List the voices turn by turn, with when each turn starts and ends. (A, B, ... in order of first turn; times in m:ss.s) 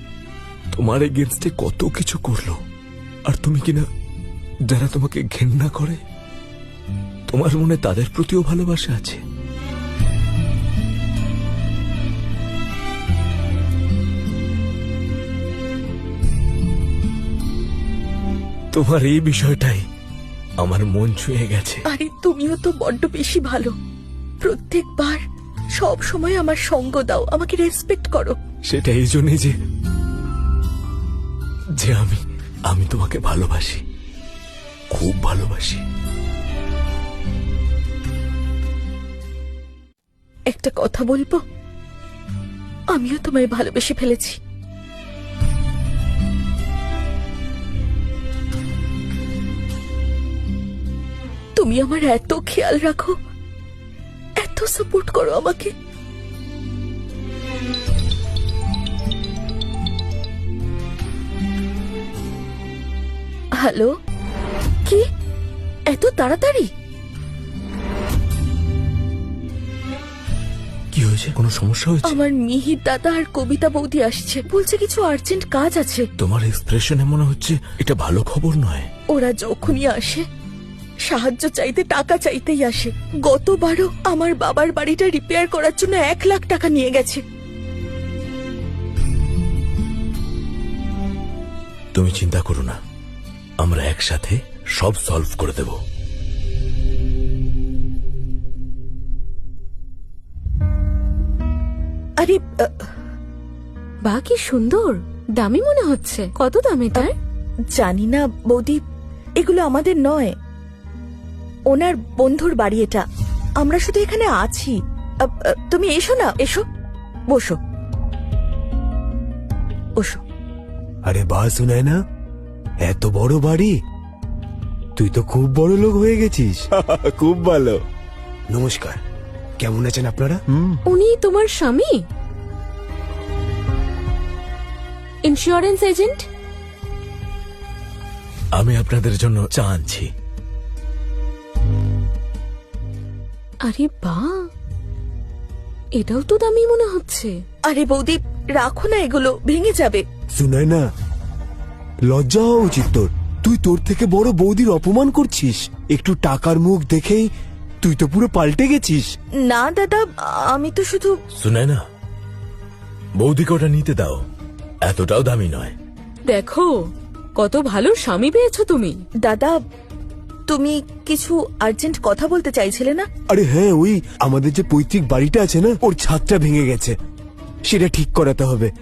0:00.7-0:02.6 A
0:03.3-0:03.8 A
0:04.7-0:06.0 A
0:07.3-0:09.2 A
0:18.7-0:19.8 A
0:20.6-0:21.8 A
0:21.9-0:23.7 B
0:24.4-0:25.2 B
0:25.8-0:28.4 B
0:28.6-0:29.5 A
0:31.8-0:33.8 A
0:34.9-0:35.8 A
0:40.5-0:41.4 B
0:42.9-0:44.4 B
0:51.6-0:53.1 B
0:54.4-0:55.7 B
1:03.6-1:03.9 B
1:05.9-1:06.7 B
1:10.9-1:12.1 A
1:12.0-1:16.1 B
1:16.2-1:18.9 A
1:19.1-1:20.2 B
1:21.0-1:27.2 B
1:31.9-1:32.8 A
1:33.6-1:35.8 A
1:42.2-1:42.7 B
1:44.0-1:47.1 C
1:47.7-1:48.8 B
1:49.4-1:50.3 B
1:51.7-1:53.0 B
1:53.6-1:56.6 B
1:57.3-1:57.6 B
2:00.0-2:00.2 B
2:01.0-2:02.0 D
2:02.8-2:03.7 D
2:05.0-2:07.8 D
2:08.5-2:09.0 D
2:09.6-2:10.7 D
2:10.8-2:12.0 C
2:15.2-2:16.2 C
2:18.5-2:20.1 A
2:23.6-2:24.4 C
2:26.0-2:27.3 C
2:27.6-2:30.0 B
2:30.3-2:30.8 D
2:32.1-2:37.3 D
2:37.8-2:39.1 D
2:39.4-2:41.2 B
2:41.4-2:41.8 A
2:43.2-2:44.2 A
2:44.8-2:45.7 A
2:46.3-2:46.7 E
2:47.4-2:48.9 E
2:49.2-2:49.6 B
2:50.5-2:53.0 B
2:53.3-2:56.9 D
2:57.7-2:58.7 D